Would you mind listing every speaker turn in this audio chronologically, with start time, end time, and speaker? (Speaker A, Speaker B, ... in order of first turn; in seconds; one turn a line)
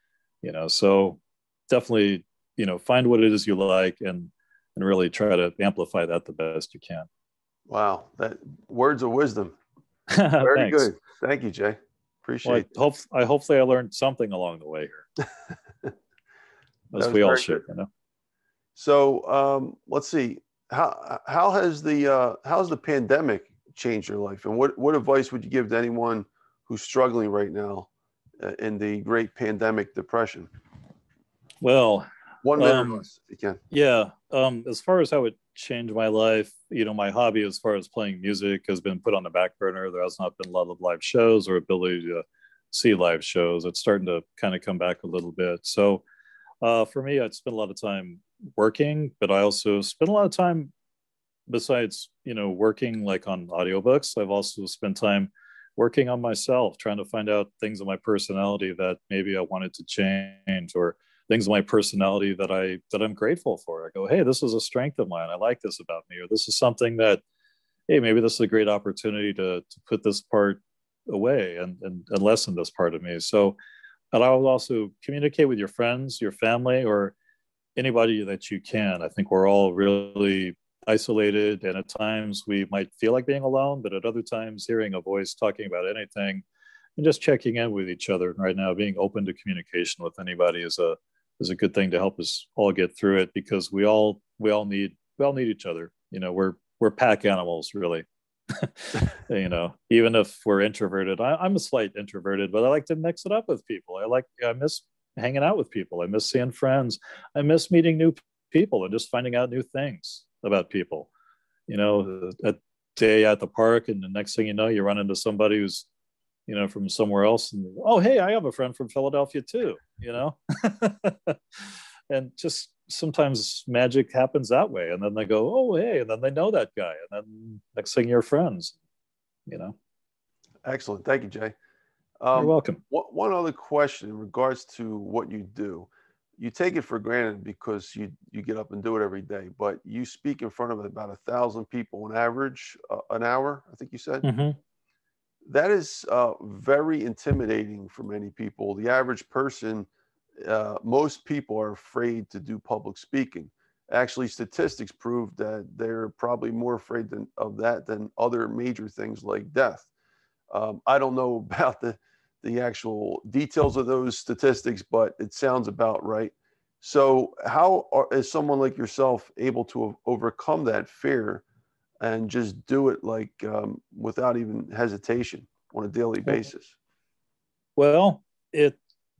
Speaker A: 0.4-7.1
Speaker B: 7.7-9.6
Speaker A: 10.1-10.9
Speaker B: 10.4-12.7
Speaker A: 12.4-15.1
Speaker A: 16.9-17.9
Speaker B: 16.9-17.6
Speaker B: 18.8-27.9
Speaker B: 28.4-30.5
Speaker A: 31.6-33.0
Speaker B: 32.4-33.6
Speaker A: 33.7-46.0
Speaker A: 46.6-50.7
Speaker A: 51.5-67.2
Speaker A: 67.9-73.6
Speaker A: 74.1-77.1
Speaker A: 77.8-86.4
Speaker A: 87.0-111.1
Speaker A: 111.7-115.9
Speaker A: 116.5-128.8
Speaker A: 129.5-129.8
Speaker B: 130.6-131.5
Speaker B: 132.2-144.2
Speaker A: 132.3-132.8
Speaker A: 144.2-144.6
Speaker B: 145.4-149.9
Speaker B: 150.4-159.9
Speaker B: 160.5-171.4
Speaker B: 172.0-176.8
Speaker A: 177.8-178.8